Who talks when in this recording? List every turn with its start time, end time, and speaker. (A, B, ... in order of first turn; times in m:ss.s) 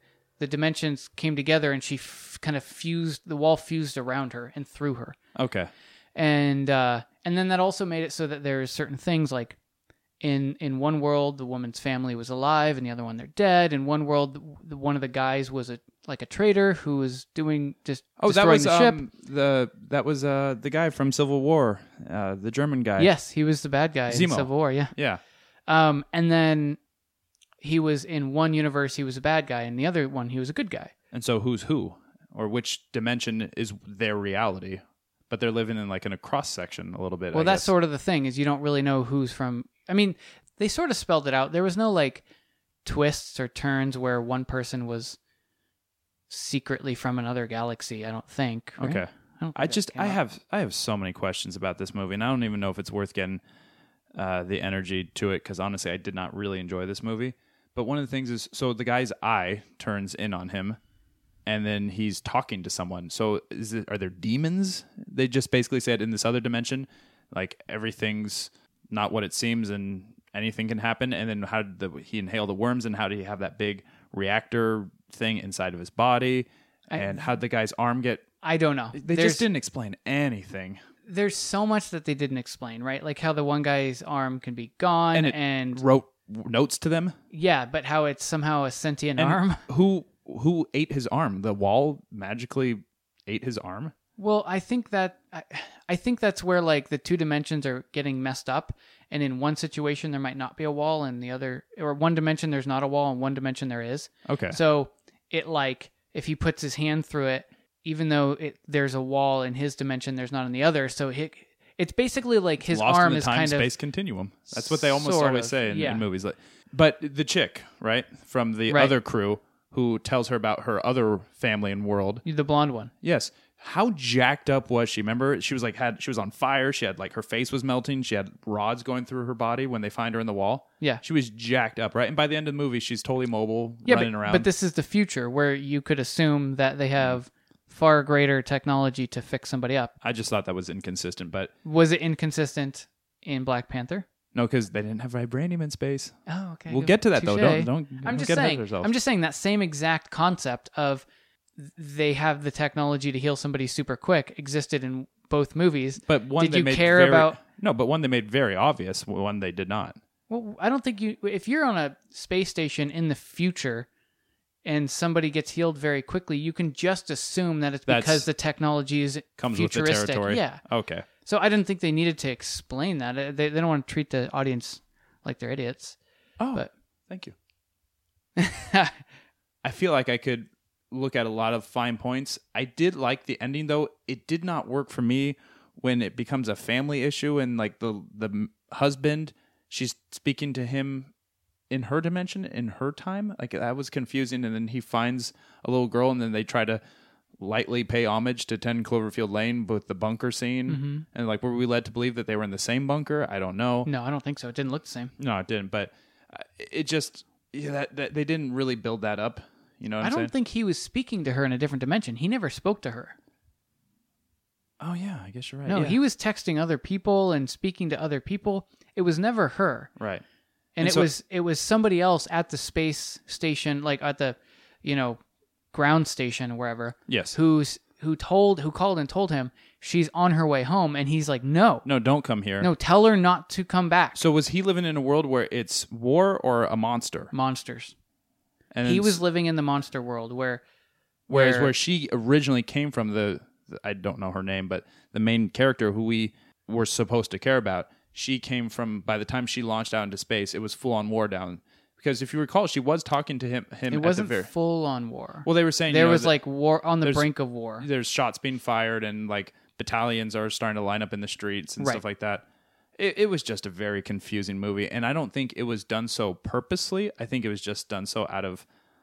0:00.4-0:05.2 A
0:05.4-0:05.7 B
0:06.1-0:09.6 A
0:10.2-0:19.0 A
0:18.2-0:23.1 B
0:23.0-0:24.9 A
0:24.1-0:25.2 B
0:25.7-0:26.8 A
0:27.6-0:30.9 A
0:31.1-0:37.7 B
0:37.3-0:42.2 A
0:42.8-0:45.2 A
0:46.3-0:50.2 A
0:48.8-0:53.4 B
0:54.1-1:00.8 B
1:01.4-1:18.2 B
1:16.9-1:17.3 A
1:18.4-1:19.4 A
1:18.9-1:20.8 B
1:21.0-1:25.8 A
1:25.1-1:27.1 B
1:27.3-1:29.6 A
1:29.2-1:33.9 B
1:34.2-1:53.7 A
1:44.2-1:44.6 B
1:52.7-2:02.2 B
1:54.5-1:56.0 A
1:58.7-1:58.9 A
2:02.2-2:02.9 A
2:03.0-2:14.5 B
2:13.8-2:19.9 A
2:20.0-2:21.5 B
2:21.6-2:24.0 A
2:24.3-2:26.2 B
2:26.3-2:31.0 A
2:26.7-2:28.9 B
2:31.6-2:37.4 A
2:36.0-2:40.0 B
2:40.3-2:43.9 A
2:44.6-2:50.6 A
2:47.9-2:48.3 B
2:49.4-2:51.1 B
2:51.2-2:56.0 A
2:56.4-2:57.3 B
2:58.4-2:59.0 A
2:59.6-3:11.1 B
3:11.7-3:16.8 B
3:17.4-3:23.9 B
3:20.7-3:21.0 A
3:23.8-3:25.1 A
3:25.2-3:30.3 B
3:30.0-3:33.1 A
3:34.8-3:36.0 B
3:35.7-3:39.9 A
3:40.0-3:40.2 B
3:40.8-3:45.2 A
3:40.8-3:41.1 B
3:45.7-3:51.8 A
3:47.1-3:47.4 B
3:51.8-3:52.7 B
3:52.6-3:54.2 A
3:54.2-3:57.3 B
3:57.3-3:57.9 A
3:58.7-3:59.2 B
3:58.8-4:00.6 A
4:01.3-4:01.7 A
4:01.3-4:14.5 B
4:13.9-4:17.9 A
4:15.4-4:16.4 B
4:17.0-4:17.3 B
4:17.8-4:22.4 B
4:23.0-4:28.6 B